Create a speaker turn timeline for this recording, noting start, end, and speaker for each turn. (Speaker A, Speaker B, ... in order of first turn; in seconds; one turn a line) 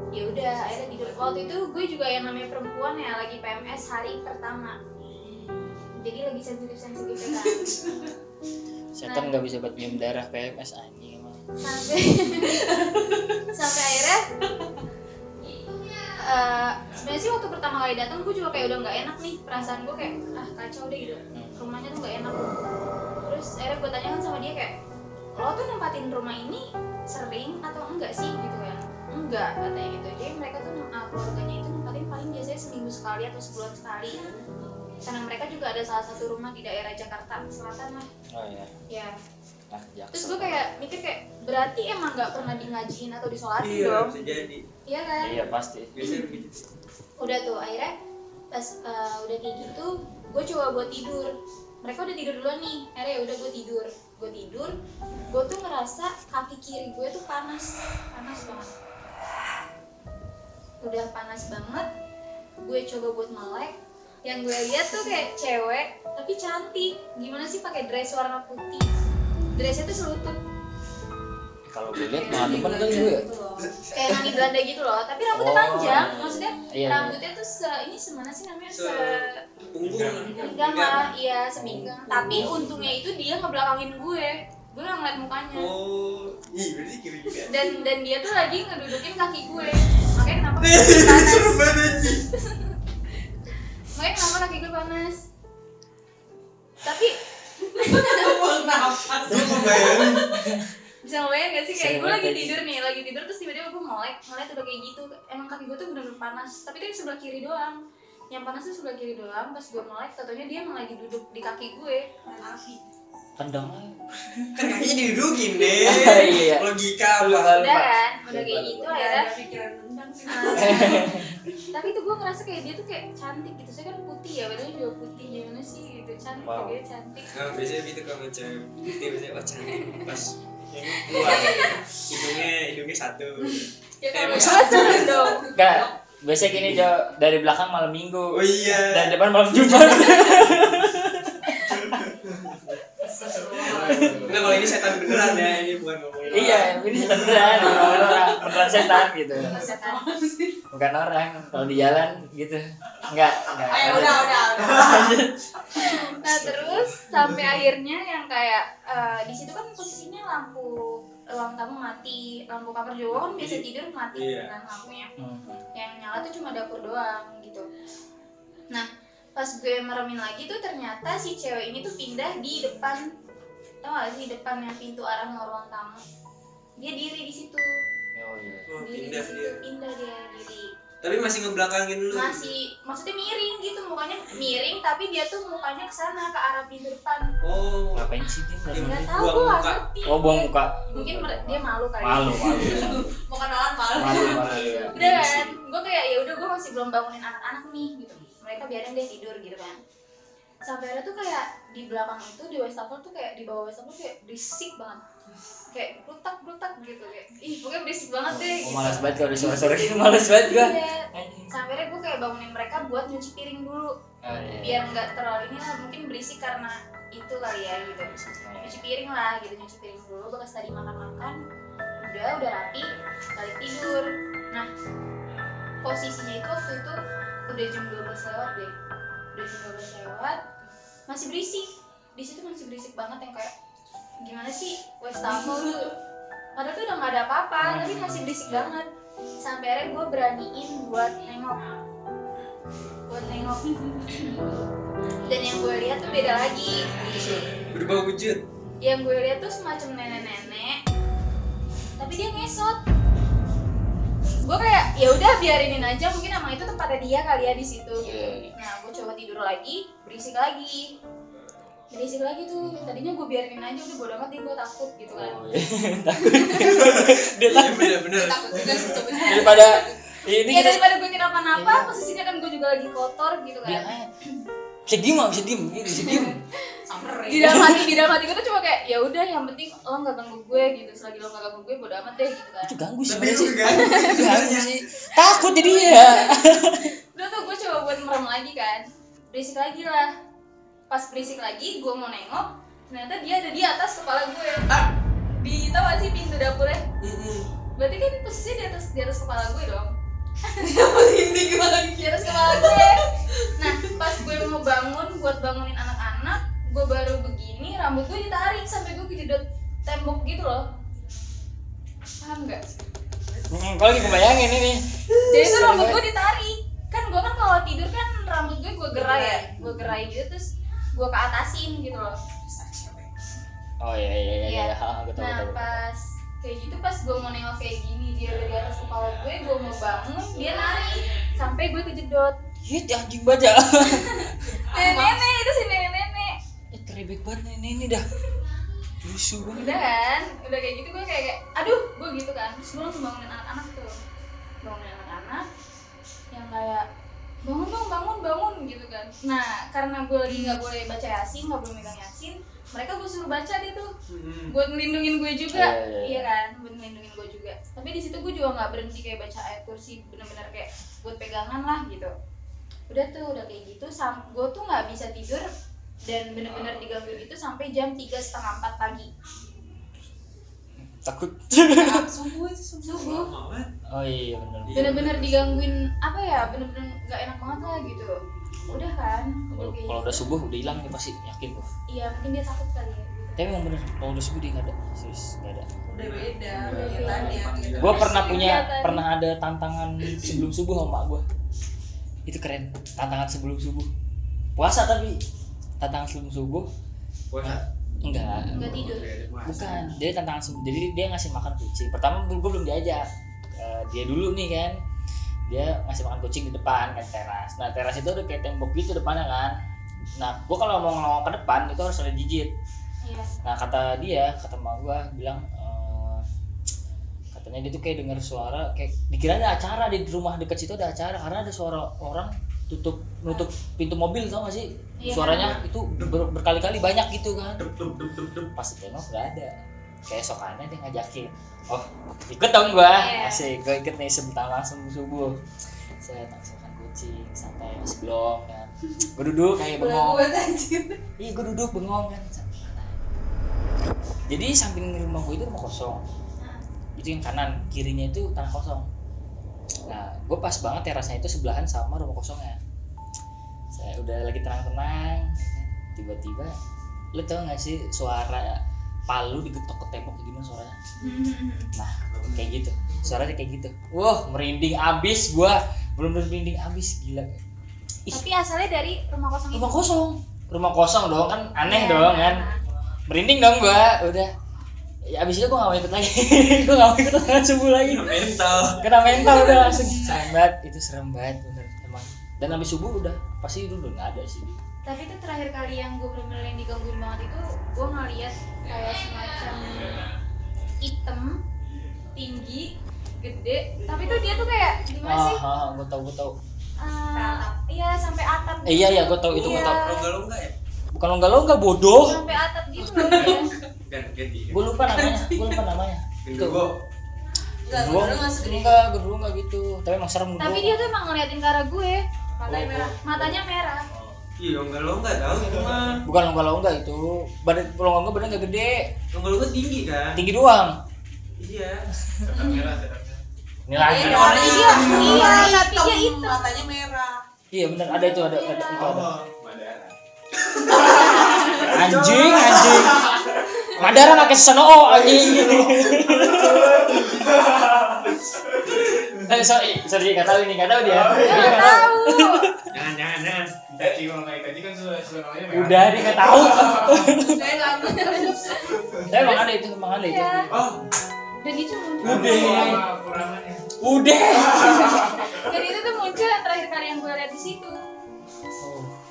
Speaker A: 0.1-4.8
Speaker A: 5.9-7.8
Speaker B: 7.4-8.1
Speaker C: 9.0-11.4
Speaker A: 11.6-12.6
Speaker B: 12.4-13.4
Speaker A: 13.5-14.3
Speaker A: 16.2-24.7
Speaker C: 19.6-19.8
Speaker A: 25.4-34.2
Speaker A: 35.0-38.1
Speaker C: 38.3-38.7
Speaker C: 39.7-40.7
Speaker A: 40.1-44.1
Speaker D: 43.6-44.6
Speaker A: 44.9-45.3
Speaker C: 45.2-46.1
Speaker D: 46.0-46.7
Speaker A: 47.2-47.9
Speaker A: 48.5-54.7
Speaker A: 55.3-58.7
Speaker A: 60.8-61.9
Speaker A: 62.6-68.9
Speaker A: 69.6-70.4
Speaker C: 71.7-73.3
Speaker B: 72.0-73.7
Speaker D: 73.6-74.2
Speaker A: 73.9-79.4
Speaker C: 75.3-77.2
Speaker D: 78.7-81.1
Speaker E: 79.8-80.4
Speaker A: 80.3-85.7
Speaker C: 81.6-82.9
Speaker D: 85.5-87.5
Speaker A: 87.5-91.7
Speaker D: 90.6-92.2
Speaker A: 94.0-95.2
Speaker A: 96.8-97.2
Speaker B: 97.6-100.2
Speaker A: 97.8-98.4
Speaker D: 99.2-100.2
Speaker C: 99.3-100.8
Speaker A: 101.1-107.8
Speaker C: 101.8-102.6
Speaker A: 108.3-112.1
Speaker B: 112.2-112.8
Speaker C: 113.4-114.6
Speaker D: 114.5-117.6
Speaker C: 115.8-118.9
Speaker A: 117.6-119.3
Speaker B: 118.9-121.7
Speaker A: 120.3-121.1
Speaker C: 120.5-121.4
Speaker A: 121.7-127.3
Speaker C: 126.4-126.8
Speaker D: 127.3-133.6
Speaker A: 129.7-130.0
Speaker B: 131.1-132.3
Speaker A: 134.0-135.4
Speaker B: 134.1-135.9
Speaker D: 134.1-135.2
Speaker C: 135.5-142.0
Speaker D: 138.3-140.6
Speaker D: 141.8-142.6
Speaker E: 143.0-144.8
Speaker D: 143.7-148.3
Speaker C: 143.7-144.6
Speaker C: 146.3-149.6
Speaker B: 146.4-146.7
Speaker B: 147.8-150.6
Speaker A: 149.5-150.0
Speaker C: 150.7-154.7
Speaker B: 153.7-155.2
Speaker D: 153.9-155.2
Speaker A: 155.7-165.1
Speaker D: 155.9-156.8
Speaker D: 163.2-164.5
Speaker C: 165.2-165.7
Speaker A: 165.8-167.7
Speaker A: 168.7-173.1
Speaker A: 173.8-176.0
Speaker A: 176.8-177.7
Speaker C: 178.2-178.7
Speaker D: 178.7-179.6
Speaker A: 178.8-180.7
Speaker D: 181.0-182.5
Speaker A: 182.1-187.2
Speaker D: 187.4-188.1
Speaker C: 187.9-189.1
Speaker D: 188.7-189.8
Speaker A: 188.8-192.9
Speaker C: 190.1-193.1
Speaker B: 192.6-194.9
Speaker C: 193.9-195.6
Speaker D: 194.1-194.9
Speaker A: 194.9-199.8
Speaker A: 200.6-205.0
Speaker A: 205.7-213.9
Speaker C: 208.3-211.5
Speaker C: 214.2-214.9
Speaker A: 214.6-221.4
Speaker C: 218.0-218.8
Speaker A: 222.0-224.7
Speaker A: 225.8-227.0
Speaker A: 227.5-228.7
Speaker A: 229.3-230.4
Speaker A: 231.1-233.5
Speaker A: 234.2-235.9
Speaker B: 235.2-235.9
Speaker A: 236.6-238.9
Speaker C: 237.6-238.8
Speaker A: 239.4-241.6
Speaker A: 243.1-244.4
Speaker A: 245.2-247.2
Speaker D: 247.7-248.4
Speaker A: 248.8-250.8
Speaker A: 252.0-252.8
Speaker A: 254.4-260.9
Speaker C: 258.0-258.5
Speaker A: 261.9-265.4
Speaker C: 262.6-263.0
Speaker C: 265.1-268.0
Speaker A: 266.3-266.6
Speaker D: 266.6-269.0
Speaker B: 268.1-270.0
Speaker C: 269.2-270.8
Speaker A: 270.5-273.9
Speaker C: 271.6-271.9
Speaker C: 273.6-274.1
Speaker C: 274.9-276.4
Speaker A: 276.0-276.3
Speaker B: 276.9-277.8
Speaker A: 277.3-282.7
Speaker C: 277.4-277.9
Speaker C: 282.6-286.9
Speaker D: 283.1-284.8
Speaker A: 283.7-284.0
Speaker A: 285.4-286.4
Speaker A: 287.1-290.1
Speaker A: 290.9-294.8
Speaker A: 295.4-296.9
Speaker D: 297.0-297.5
Speaker A: 297.8-299.9
Speaker B: 300.6-304.4
Speaker A: 302.0-310.7
Speaker A: 312.2-312.6
Speaker C: 313.5-316.0
Speaker D: 313.9-314.3
Speaker A: 315.3-322.2
Speaker B: 318.9-319.6
Speaker B: 322.5-323.1
Speaker C: 323.8-325.8
Speaker A: 324.4-332.4
Speaker B: 330.3-331.3
Speaker C: 332.6-334.6
Speaker A: 333.9-336.4
Speaker B: 334.7-335.2
Speaker C: 336.7-338.1
Speaker C: 339.0-339.8
Speaker A: 339.5-343.9
Speaker A: 344.6-345.4
Speaker A: 346.3-346.9
Speaker A: 347.4-353.9
Speaker D: 354.1-354.5
Speaker A: 354.5-362.1
Speaker C: 355.5-356.3
Speaker A: 362.9-365.5
Speaker A: 366.1-369.1
Speaker C: 370.8-372.1
Speaker B: 371.6-373.2
Speaker A: 372.9-373.3
Speaker D: 373.0-373.7
Speaker C: 373.9-375.1
Speaker D: 374.7-375.6
Speaker A: 374.8-378.2
Speaker A: 378.7-380.3
Speaker C: 379.6-381.7
Speaker A: 381.9-383.5
Speaker C: 383.4-385.7
Speaker B: 385.9-388.5
Speaker D: 386.0-388.2
Speaker C: 386.6-391.2
Speaker A: 386.7-387.0
Speaker A: 388.2-389.0
Speaker C: 392.3-393.9
Speaker C: 394.6-395.2
Speaker C: 395.8-396.7
Speaker D: 397.3-397.6
Speaker C: 397.4-403.1
Speaker A: 398.5-399.1
Speaker D: 398.7-399.8
Speaker C: 403.6-404.8
Speaker C: 405.5-409.6
Speaker C: 410.2-412.5
Speaker A: 413.0-413.3
Speaker C: 413.4-416.2
Speaker C: 417.3-427.6
Speaker A: 425.0-425.6
Speaker D: 426.0-426.2
Speaker D: 427.6-428.5
Speaker C: 428.6-429.5
Speaker C: 430.1-435.4
Speaker A: 432.9-433.4
Speaker C: 436.0-440.3
Speaker B: 439.7-441.0
Speaker C: 441.2-443.0
Speaker C: 444.3-446.0
Speaker C: 447.0-448.9
Speaker C: 449.9-452.6
Speaker C: 453.7-456.6
Speaker C: 457.2-460.8
Speaker A: 461.0-461.7
Speaker C: 461.8-467.3
Speaker A: 468.1-469.8
Speaker C: 469.5-472.4
Speaker A: 471.6-472.6
Speaker C: 473.1-474.3
Speaker C: 475.1-484.5
Speaker D: 477.8-478.9
Speaker A: 479.2-479.7
Speaker A: 484.9-490.1
Speaker A: 490.8-491.4
Speaker A: 492.2-495.4
Speaker C: 495.1-496.4
Speaker A: 496.8-500.1
Speaker B: 497.1-497.5
Speaker C: 498.7-499.8
Speaker D: 499.3-500.5
Speaker C: 500.9-502.4
Speaker A: 502.0-503.5
Speaker B: 503.0-503.5
Speaker D: 503.0-503.3
Speaker D: 503.9-504.6
Speaker C: 504.5-506.6
Speaker B: 504.9-505.6
Speaker D: 506.2-506.8
Speaker B: 507.7-508.8
Speaker C: 507.7-510.9
Speaker A: 510.4-513.9
Speaker B: 512.5-512.9
Speaker D: 512.5-512.9
Speaker E: 513.9-514.2
Speaker D: 514.4-516.0
Speaker E: 515.3-515.9
Speaker C: 516.1-518.9
Speaker D: 519.1-520.2
Speaker C: 520.1-520.8
Speaker D: 521.4-521.8
Speaker C: 522.1-522.4
Speaker E: 522.2-523.2
Speaker A: 522.4-522.6
Speaker C: 523.7-525.5
Speaker B: 523.8-527.2
Speaker A: 523.9-526.4
Speaker C: 527.5-529.1
Speaker A: 527.9-528.9
Speaker E: 528.8-530.0
Speaker D: 530.5-533.1
Speaker B: 531.2-531.6
Speaker E: 531.4-534.2
Speaker C: 531.6-533.2
Speaker C: 533.8-536.9
Speaker D: 533.8-534.3
Speaker D: 534.8-537.1
Speaker E: 535.0-535.6
Speaker E: 536.2-538.7
Speaker C: 539.3-542.5
Speaker E: 540.9-541.4
Speaker A: 541.1-542.5
Speaker D: 542.7-543.6
Speaker E: 543.7-547.3
Speaker C: 545.5-547.5
Speaker B: 547.2-548.7
Speaker A: 547.6-549.4
Speaker C: 549.1-550.5
Speaker A: 550.0-550.5
Speaker A: 551.4-552.7
Speaker C: 552.0-552.9
Speaker E: 552.0-553.7
Speaker C: 553.8-555.2
Speaker E: 554.4-554.9
Speaker A: 555.2-557.8
Speaker C: 558.6-559.0